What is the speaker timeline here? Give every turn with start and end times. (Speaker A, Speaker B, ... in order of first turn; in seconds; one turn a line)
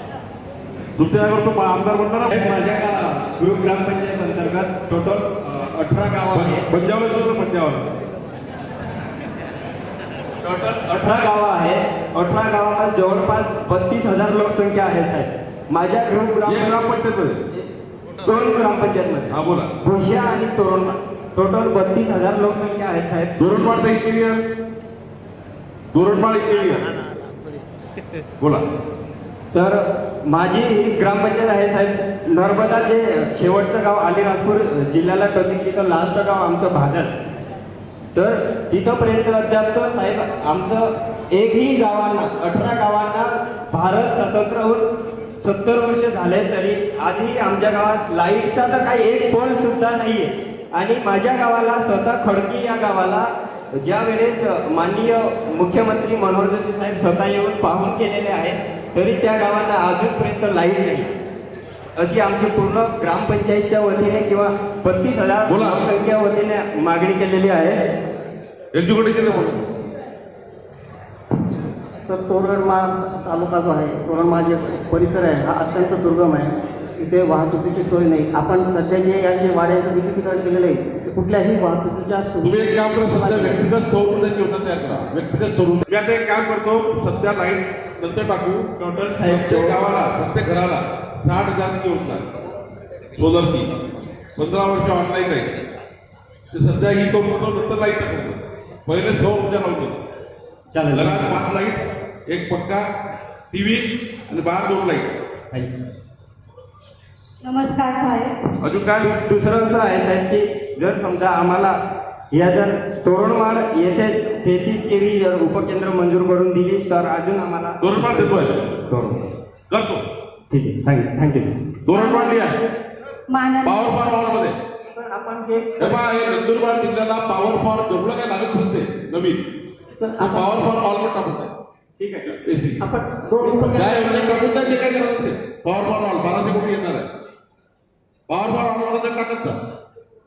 Speaker A: 1.0-2.4
Speaker B: 2.3-6.7
Speaker A: 6.3-7.9
Speaker B: 10.4-16.8
Speaker A: 16.4-17.4
Speaker B: 17.5-23.3
Speaker A: 19.3-19.7
Speaker A: 23.4-24.4
Speaker A: 25.9-26.9
Speaker B: 29.5-37.1
Speaker B: 38.1-44.8
Speaker B: 45.4-61.1
Speaker B: 62.0-67.8
Speaker A: 65.5-65.8
Speaker A: 68.7-69.6
Speaker C: 72.0-83.7
Speaker A: 82.4-88.7
Speaker B: 88.8-89.8
Speaker A: 89.2-92.2
Speaker A: 93.2-93.7
Speaker A: 94.4-95.5
Speaker A: 96.5-100.0
Speaker B: 100.7-101.4
Speaker A: 100.9-102.8
Speaker A: 103.5-105.1
Speaker D: 107.4-108.3
Speaker A: 108.6-109.2
Speaker B: 109.0-111.8
Speaker B: 112.3-119.3
Speaker A: 117.8-118.6
Speaker A: 119.7-120.0
Speaker B: 120.5-121.5
Speaker A: 121.8-122.6
Speaker D: 121.9-122.5
Speaker D: 123.3-124.1
Speaker A: 123.6-124.5
Speaker C: 124.9-126.0
Speaker A: 125.8-129.4
Speaker C: 130.0-130.7
Speaker A: 130.2-131.5
Speaker B: 132.0-132.3
Speaker A: 132.4-132.8
Speaker C: 132.8-134.8
Speaker A: 133.5-137.1
Speaker A: 138.3-139.6